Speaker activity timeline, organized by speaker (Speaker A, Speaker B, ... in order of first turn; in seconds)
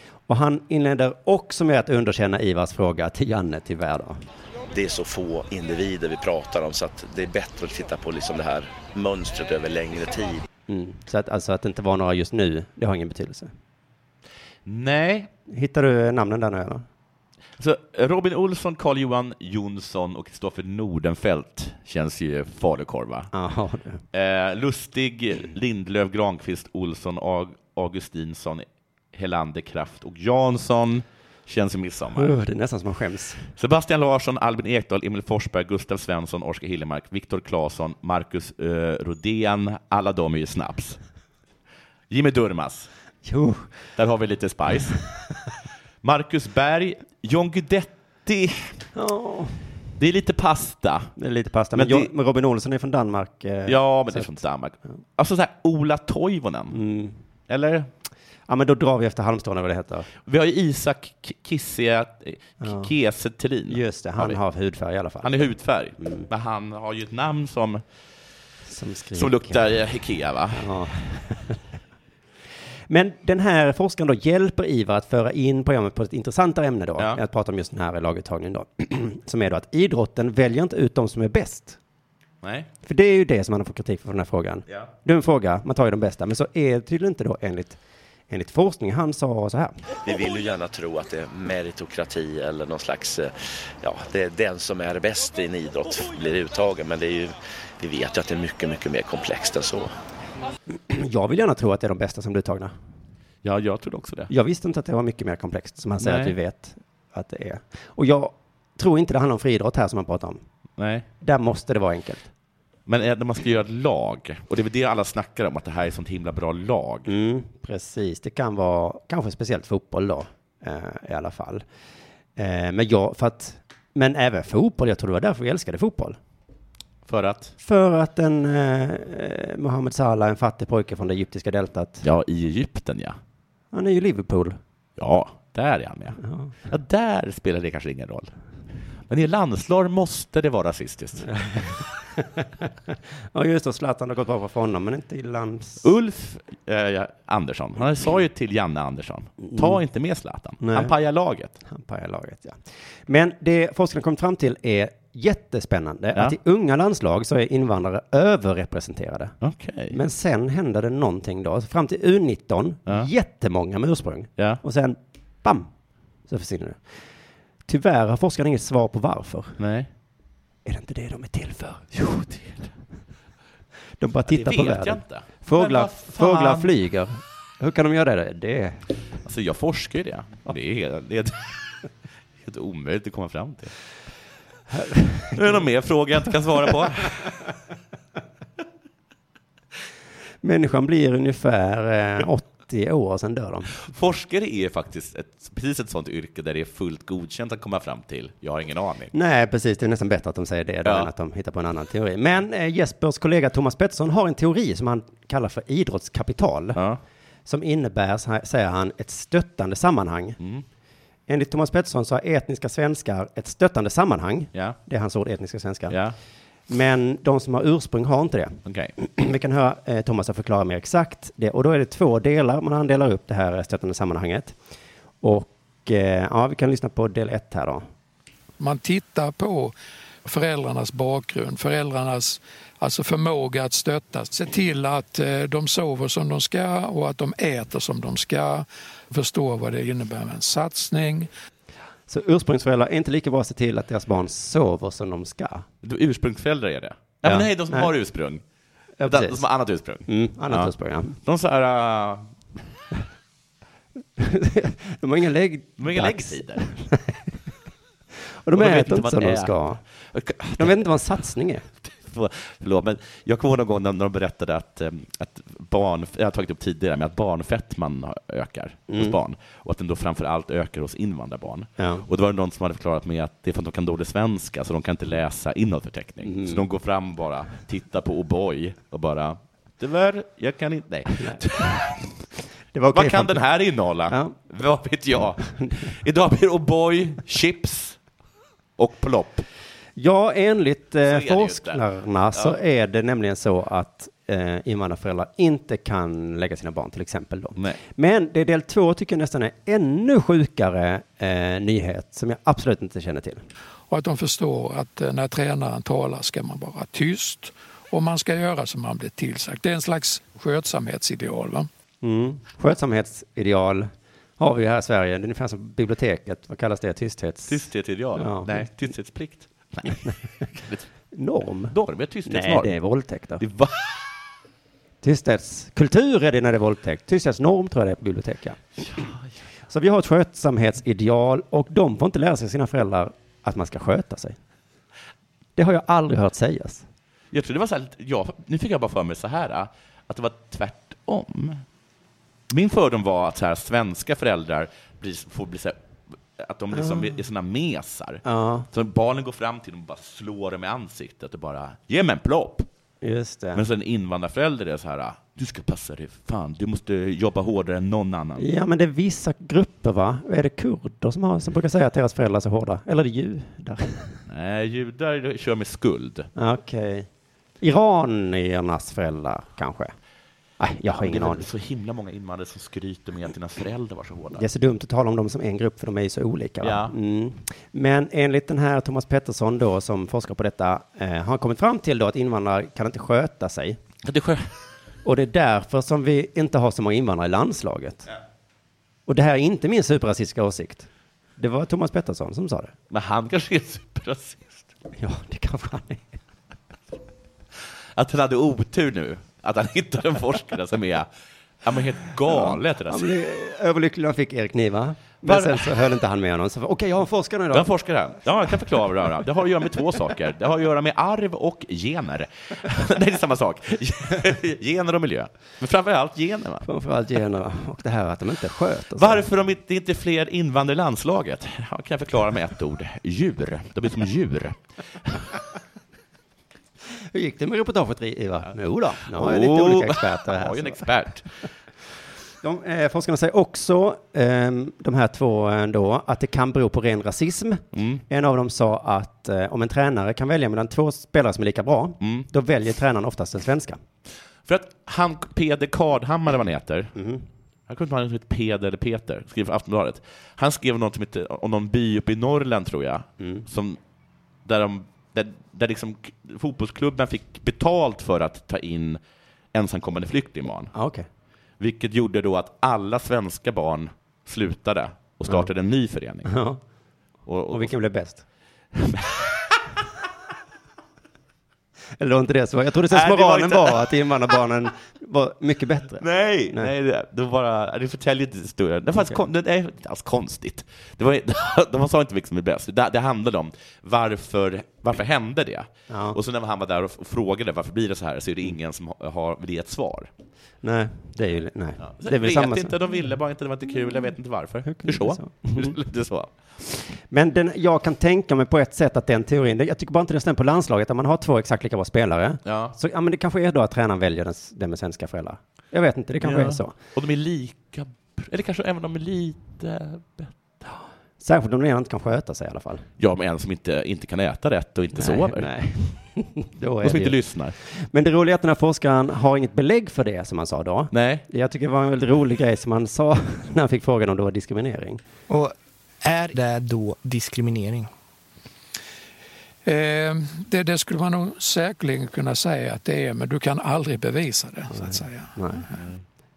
Speaker A: 0.3-4.2, 10.7-13.5, 15.5-16.9, 23.3-24.0, 32.1-33.4, 43.2-43.7, 48.9-49.7, 51.2-54.4, 56.7-57.2, 58.5-60.1, 62.6-62.9, 63.7-65.3, 66.0-66.3, 68.6-69.6, 70.5-71.6, 72.9-81.8, 82.8-87.8, 88.3-89.7, 100.9-102.7, 104.3-110.4, 111.2-112.3, 117.1-121.6, 122.3-126.2, 127.6-132.0, 133.7-134.6, 136.2-136.5, 141.3-145.8, 149.5-149.8, 150.6-150.9, 151.6-159.3, 159.9-165.7, 166.3-166.8, 167.7-169.6, 170.6-172.6, 174.0-178.8, 184.7-185.6, 190.4-193.7, 199.1-206.8, 207.4-210.4, 211.3-216.0, 216.7-224.6, 225.2-227.8, 242.1-245.7, 247.2-247.9, 249.0-249.4, 250.1-251.2, 254.2-257.3, 258.4-259.8, 260.5-261.6, 268.9-269.1, 271.8-272.1, 276.2-276.6, 281.2-281.8, 282.7-283.4, 284.1-284.3, 289.9-303.4, 312.0-317.6, 318.1-318.6, 321.1-321.7, 322.2-323.4, 325.0-328.6, 329.7-334.4, 335.6-336.8, 348.2-348.7, 353.0-353.6, 358.4-364.2, 366.4-367.1, 367.6-369.9, 370.6-371.5, 374.4-383.8, 385.0-388.1, 389.1-392.7, 394.9-396.1, 402.3-407.7, 416.6-419.2, 426.9-430.9, 432.4-443.8, 446.9-447.2, 453.2-453.4, 460.7-461.1, 466.2-466.6, 467.5-468.2, 472.0-476.7, 485.9-486.2, 490.6-492.8, 494.6-495.8, 496.9-506.7, 511.2-512.8, 514.9-525.0, 534.7-535.7
Speaker B: 4.7-10.4, 90.0-99.9
Speaker C: 14.7-15.3, 17.6-23.3, 24.1-32.3, 33.6-41.0, 42.1-42.9, 44.0-45.0, 46.0-48.8, 50.0-51.1, 51.7-52.1, 53.7-56.8, 57.5-57.9, 60.2-64.4, 65.2-67.8, 69.1-70.7, 82.4-82.7, 103.4-104.3, 106.0-106.3, 110.8-111.0, 112.9-117.1, 127.1-127.5, 132.0-133.2, 135.0-138.3, 139.1-141.8, 145.8-151.6, 159.4-160.0, 169.6-169.9, 174.3-176.7, 179.2-181.7, 182.4-183.7, 185.3-187.3, 193.7-199.1, 206.7-207.0, 210.4-210.6, 215.9-216.2, 218.7-218.9, 245.8-248.4, 249.0-250.7, 251.2-252.3, 255.8-256.7, 258.5-259.5, 260.1-260.8, 261.8-281.9, 282.9-288.0, 288.8-289.4, 291.0-291.8, 317.5-320.9, 321.7-322.8, 323.4-323.9, 328.8-329.2, 337.3-341.6, 342.5-345.8, 346.4-352.7, 353.5-358.4, 364.3-366.3, 370.9-374.4, 376.6-376.9, 384.0-384.4, 392.9-394.6, 397.9-401.1, 401.6-403.1, 405.2-405.7, 407.5-416.7, 418.9-425.2, 429.1-431.3, 437.7-438.0, 442.0-442.3, 444.4-446.9, 447.7-453.8, 454.4-459.0, 459.5-460.7, 461.6-466.3, 467.2-467.7, 468.8-469.6, 472.9-473.9, 476.0-490.1, 491.8-496.3, 502.4-502.8, 506.2-510.3, 513.0-515.5, 516.8-517.5, 520.9-521.2, 535.7-536.0
Speaker D: 228.6-241.3, 303.9-311.7, 529.6-535.3
Speaker E: 525.3-527.9